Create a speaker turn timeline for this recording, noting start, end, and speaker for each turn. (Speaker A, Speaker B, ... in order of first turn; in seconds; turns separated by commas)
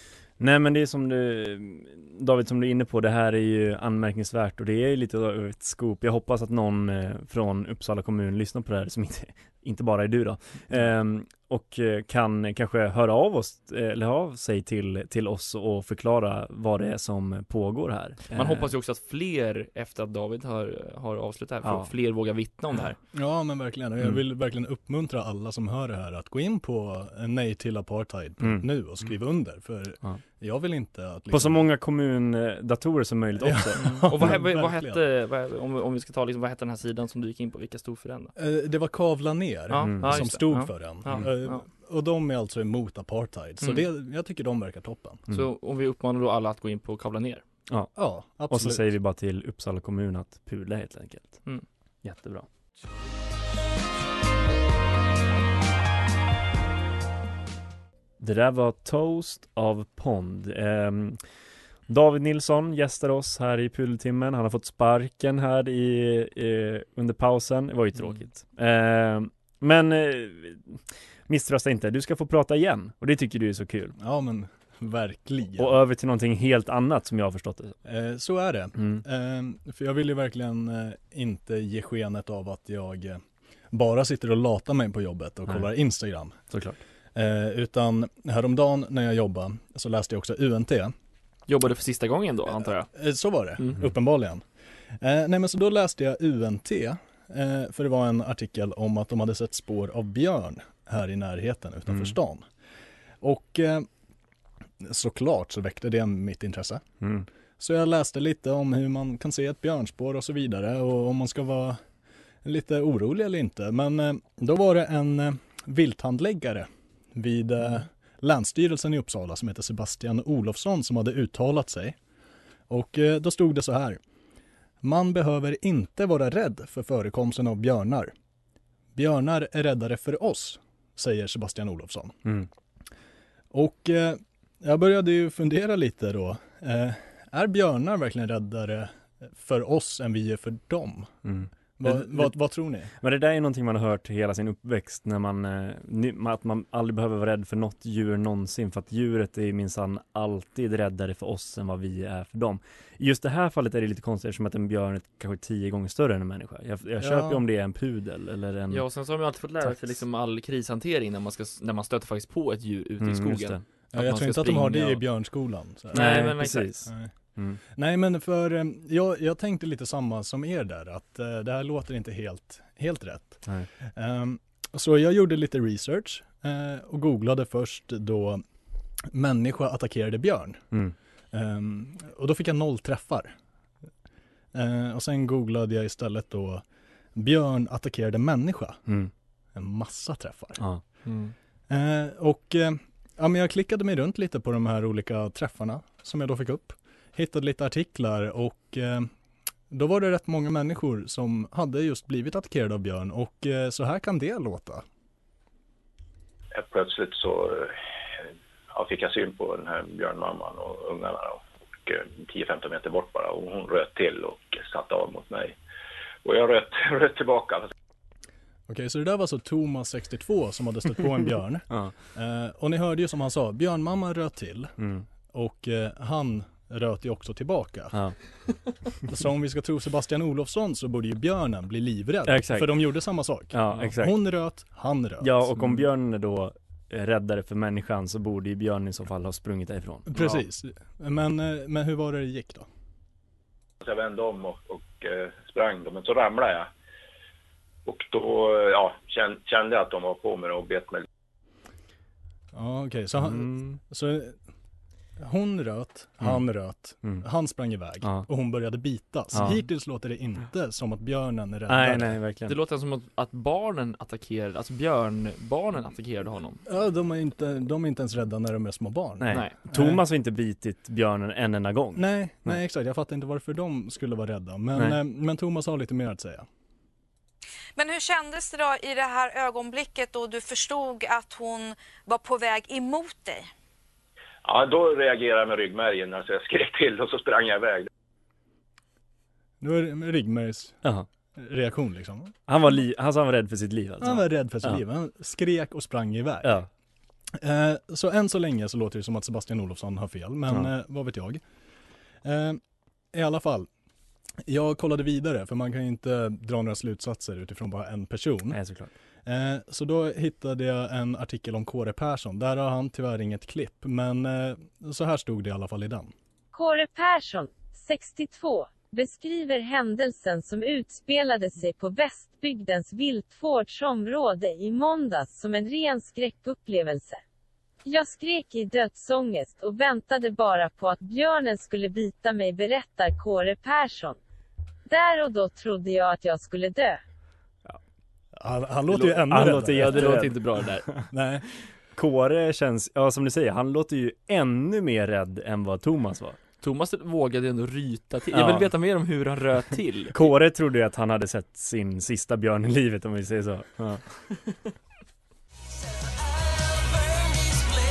Speaker A: 0.4-18.7, Speaker B: 18.3-22.9, Speaker A: 21.6-21.9, Speaker C: 23.1-31.7, Speaker A: 28.4-28.7, Speaker A: 31.3-34.3, Speaker C: 33.4-35.0, Speaker B: 33.8-38.3, Speaker C: 38.4-45.2, Speaker B: 39.7-41.6, Speaker A: 39.8-40.3, Speaker B: 45.3-47.4, Speaker A: 47.7-48.0, Speaker C: 47.9-48.9, Speaker A: 48.5-51.5, Speaker A: 52.0-52.5, Speaker A: 58.2-61.2, Speaker A: 61.9-73.9, Speaker C: 74.0-75.8, Speaker A: 75.6-77.8, Speaker C: 77.8-86.4, Speaker A: 78.7-79.0, Speaker A: 86.5-86.8, Speaker C: 87.1-90.9, Speaker B: 91.5-92.9, Speaker C: 92.7-102.5, Speaker A: 101.9-102.1, Speaker C: 103.2-103.9, Speaker C: 104.8-106.8, Speaker A: 107.0-107.3, Speaker C: 107.6-111.8, Speaker C: 112.4-122.0, Speaker C: 122.7-124.0, Speaker C: 124.8-128.1, Speaker C: 128.9-132.2, Speaker C: 133.5-141.1, Speaker A: 141.2-142.4, Speaker C: 141.8-142.9, Speaker A: 142.9-158.8, Speaker C: 157.0-157.4, Speaker B: 158.7-165.0, Speaker A: 159.6-160.0, Speaker A: 163.0-163.6, Speaker C: 163.9-166.3, Speaker B: 165.9-166.8, Speaker A: 165.9-167.6, Speaker C: 166.8-178.4, Speaker C: 179.1-180.7, Speaker C: 181.3-183.3, Speaker C: 184.5-186.6, Speaker C: 187.1-188.8, Speaker A: 188.8-189.1, Speaker C: 189.5-190.6, Speaker B: 191.0-191.3, Speaker C: 191.7-199.1, Speaker C: 199.7-204.8, Speaker D: 206.5-207.8, Speaker D: 208.7-215.6, Speaker D: 216.2-217.7, Speaker C: 218.7-228.0, Speaker A: 221.7-221.9, Speaker A: 224.8-225.1, Speaker A: 227.9-228.2, Speaker C: 229.1-235.5, Speaker A: 232.3-232.8, Speaker A: 233.5-234.2, Speaker A: 235.2-240.3, Speaker C: 240.1-242.7, Speaker D: 243.8-246.7, Speaker D: 247.9-251.1, Speaker C: 252.5-254.4, Speaker A: 253.2-253.8, Speaker C: 255.2-262.2, Speaker A: 258.0-258.3, Speaker A: 259.3-259.6, Speaker A: 261.7-262.5, Speaker B: 262.5-266.6, Speaker C: 266.6-270.0, Speaker A: 269.2-272.6, Speaker C: 271.9-276.5, Speaker E: 277.8-283.5, Speaker D: 284.4-287.9, Speaker C: 289.6-290.8, Speaker C: 291.3-292.3, Speaker A: 292.5-294.8, Speaker C: 294.0-296.6, Speaker A: 296.4-296.7, Speaker C: 297.4-301.4, Speaker C: 302.2-302.6, Speaker C: 303.1-303.7, Speaker C: 304.4-308.6, Speaker A: 308.5-308.9, Speaker C: 309.2-316.1, Speaker F: 316.5-327.2, Speaker F: 327.8-334.2, Speaker F: 334.9-337.0, Speaker C: 338.3-340.4, Speaker A: 338.9-340.4, Speaker B: 339.1-340.9, Speaker C: 341.1-341.4, Speaker A: 341.6-346.4, Speaker B: 346.6-350.2, Speaker A: 348.3-348.7, Speaker A: 350.1-354.0